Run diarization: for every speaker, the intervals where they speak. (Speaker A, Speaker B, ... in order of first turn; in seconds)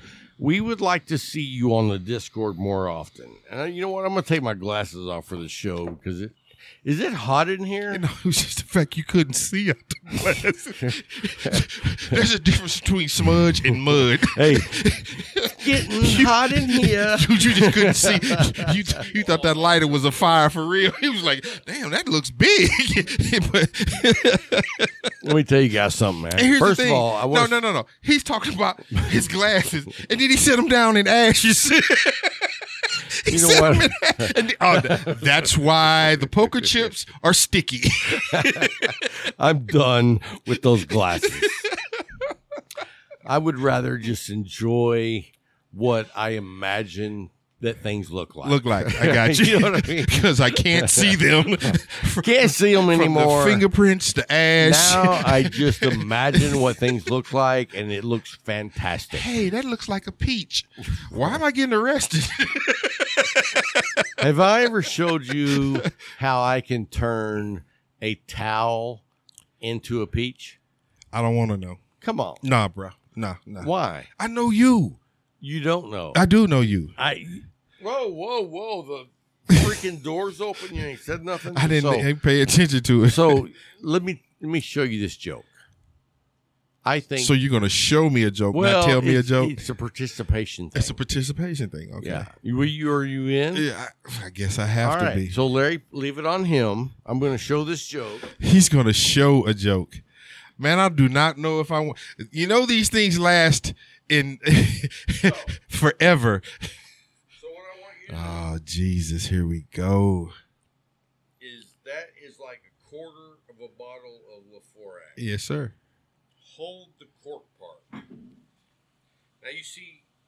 Speaker A: 0.4-8.0, 10.8-12.2, 13.9-14.8, 15.5-18.7, 25.2-27.6, 33.3-35.4, 38.1-41.7, 43.2-53.6, 54.6-59.3, 64.2-69.0, 69.6-70.6, 72.0-72.4, 73.6-74.1, 75.4-76.2, 77.0-82.1, 83.1-85.5, 86.8-87.3, 88.5-91.0, 92.0-93.7, 94.8-98.3, 105.2-105.5, 107.4-108.4, 111.4-115.2, 116.4-118.0, 119.4-120.0
Speaker B: 7.9-25.1, 26.3-39.1, 41.2-42.0, 48.4-56.8, 59.1-64.1, 65.5-65.9, 71.1-71.8, 72.4-75.0, 76.1-76.9, 79.5-79.8, 81.5-83.4, 87.2-89.5, 90.7-92.3, 93.5-95.3, 98.4-100.0, 100.6-106.7, 108.1-110.3, 115.2-115.7